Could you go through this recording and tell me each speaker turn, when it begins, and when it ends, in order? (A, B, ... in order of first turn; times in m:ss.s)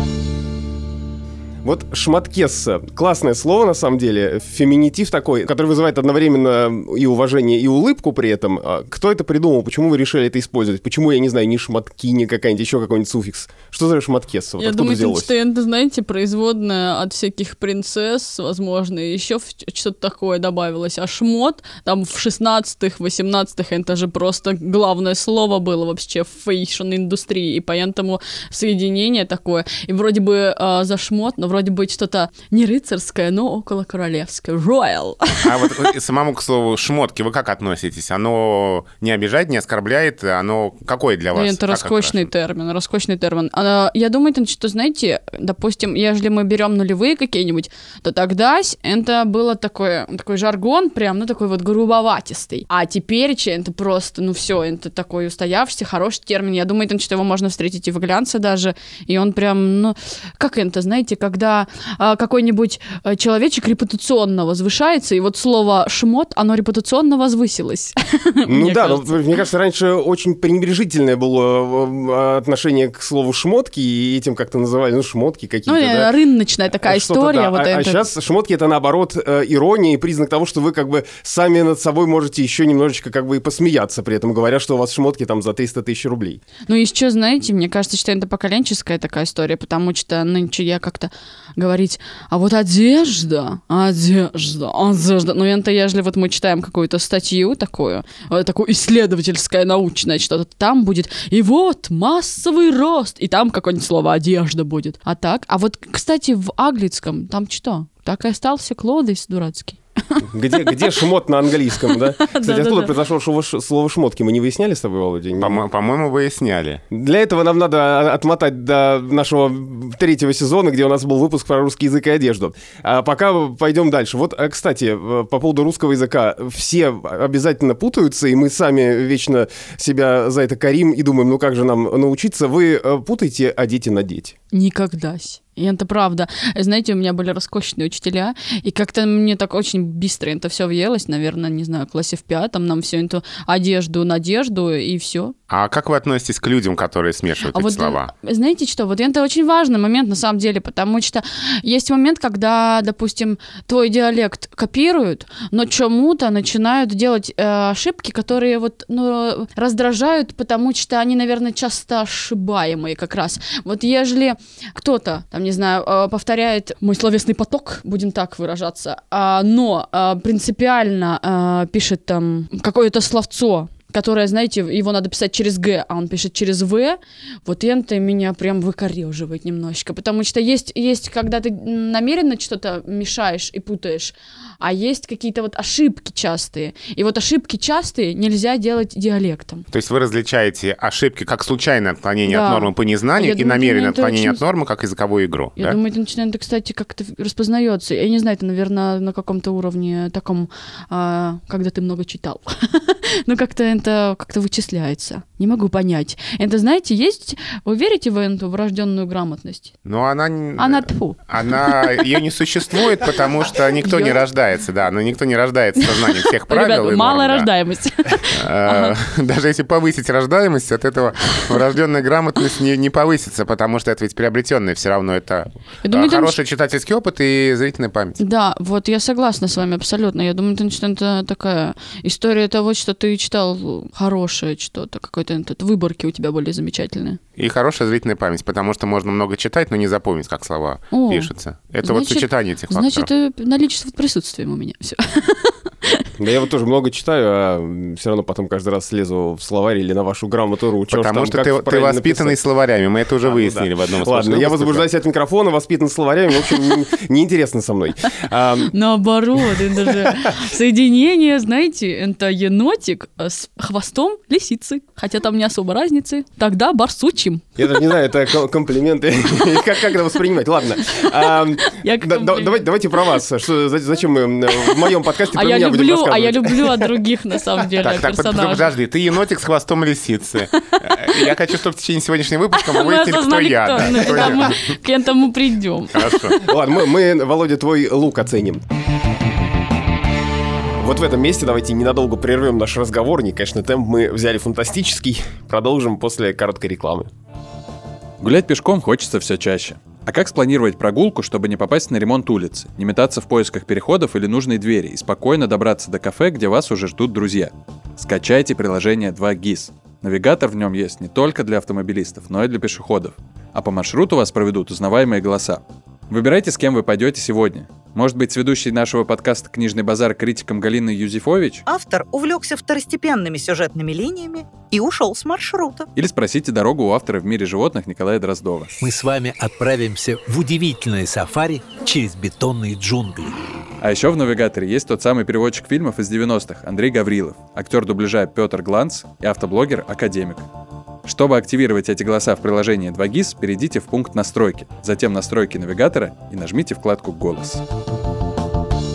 0:01.6-0:15.3 A
0:14.6-0:35.8 B
0:35.4-0:42.3 C
0:41.3-1:09.2 B
1:08.4-1:16.1 A
1:15.7-1:18.0 B
1:16.8-1:26.4 A
1:26.7-1:50.9 B
1:50.2-1:55.6 A
1:52.2-1:52.9 B
1:55.4-1:56.8 C
1:56.9-2:14.3 A
2:14.5-2:25.3 B
2:25.5-2:28.1 C
2:27.5-3:09.6 B
3:09.7-3:15.8 C
3:12.3-3:14.4 B
3:15.6-3:29.8 B
3:29.8-3:37.5 C
3:30.6-3:32.1 B
3:33.8-3:34.2 B
3:35.8-3:38.9 B
3:38.3-3:48.2 C
3:45.8-3:46.4 B
3:48.2-3:57.2 B
3:57.4-4:03.1 C
4:00.9-4:05.9 B
4:06.2-4:12.4 A
4:10.9-4:14.9 C
4:13.2-4:18.7 A
4:18.7-4:27.5 B
4:19.8-4:20.3 A
4:27.6-4:36.8 A
4:31.7-4:32.7 B
4:34.5-4:38.7 B
4:37.8-4:44.7 C
4:40.8-4:41.3 B
4:42.5-4:46.3 B
4:45.9-4:46.4 C
4:46.4-4:48.6 A
4:50.8-4:57.1 A
4:58.2-5:21.6 D
5:21.7-5:25.9 E
5:25.9-5:28.8 D
5:28.8-5:33.4 F
5:33.8-5:40.4 D
5:41.0-5:47.6 D